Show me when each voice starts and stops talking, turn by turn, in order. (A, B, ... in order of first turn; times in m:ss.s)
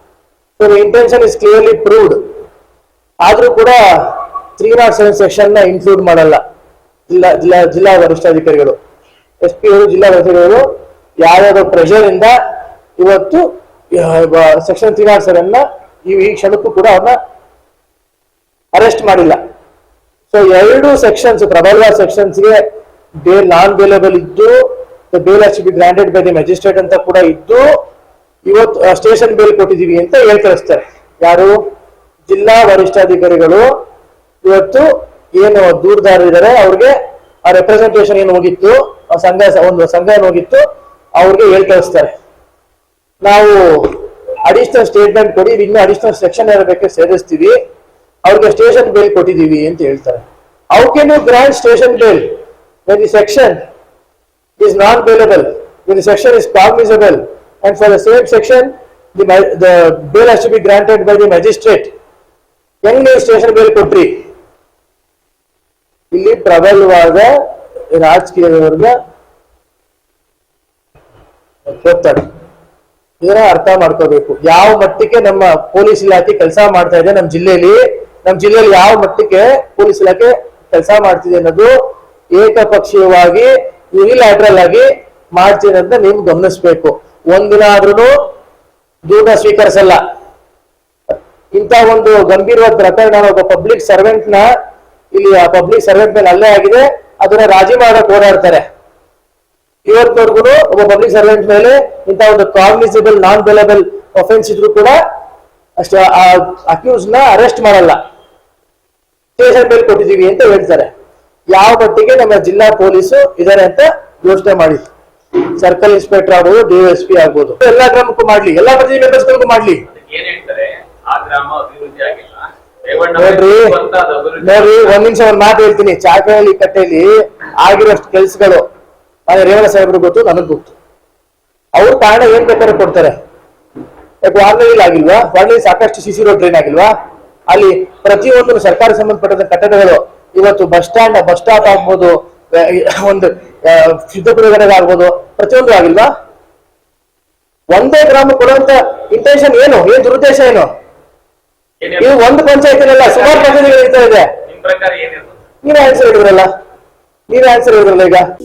0:00.6-0:02.2 A
0:03.2-0:06.4 A
0:07.1-0:08.8 A
0:09.4-0:10.6 A
0:11.2-0:12.4 A
0:13.0-0:17.2 A
0:18.7-0:19.4 A
0:20.3-0:22.6 A
0:23.2-0:27.7 A
0:28.4-0:31.6 A
0:32.3-0:33.6 A
0:34.4-0:40.6 A
0:41.2-0:42.1 A
0:43.2-0:47.5 A
0:48.2-0:52.3 A
0:52.9-0:53.6 A
0:54.6-1:01.9 A
1:02.8-1:04.2 A
1:06.1-1:07.3 A
1:07.9-1:09.0 A
1:11.7-1:12.2 A
1:13.2-1:21.7 A
1:22.3-1:28.1 A
1:29.0-1:30.0 A
1:31.5-1:34.5 A
1:35.1-1:38.6 A
1:39.8-1:45.0 A
1:45.8-1:48.0 A
1:49.4-1:50.9 A
1:51.5-1:54.8 A
1:55.6-1:59.8 A
1:59.9-2:05.0 B
2:03.2-2:03.7 A
2:04.4-2:08.6 A
2:09.3-2:10.8 A
2:11.7-2:13.1 A
2:14.2-2:16.9 A
2:17.5-2:26.1 A
2:27.7-2:30.7 A
2:31.8-2:32.4 B
2:32.0-2:34.3 A
2:33.0-2:33.6 B
2:34.5-2:35.4 B
2:35.6-2:36.5 A
2:37.3-2:38.2 A